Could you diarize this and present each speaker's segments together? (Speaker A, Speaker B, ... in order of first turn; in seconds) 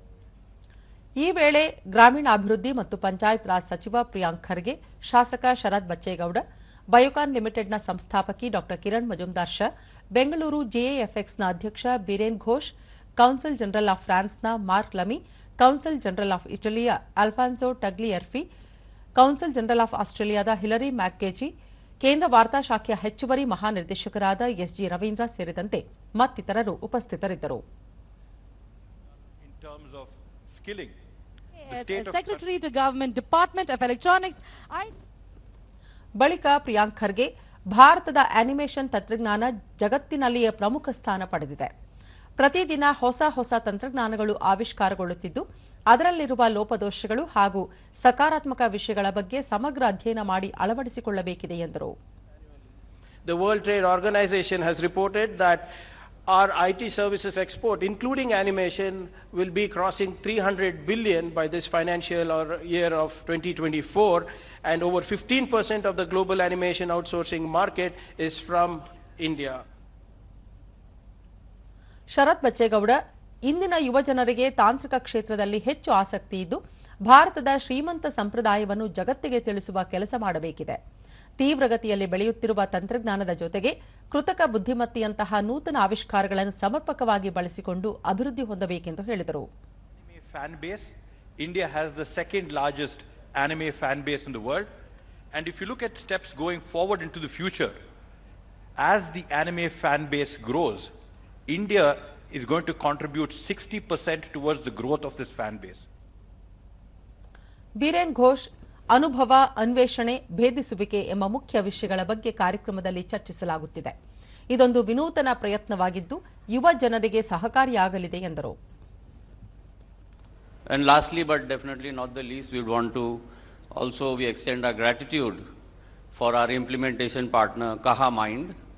Speaker A: 1.2-18.4, 19.2-21.5, 22.0-27.6, 36.2-41.7, 42.4-51.9, 72.1-80.8, 81.4-89.5, 107.8-113.9, 114.5-118.6
Speaker B: 29.4-30.9, 31.7-32.4, 90.0-94.7, 95.3-97.8, 98.8-100.9, 101.5-105.8
Speaker C: 31.7-34.9
Speaker D: 53.2-55.7, 56.3-69.6
Speaker E: 120.7-123.2, 123.7-125.4, 126.1-128.5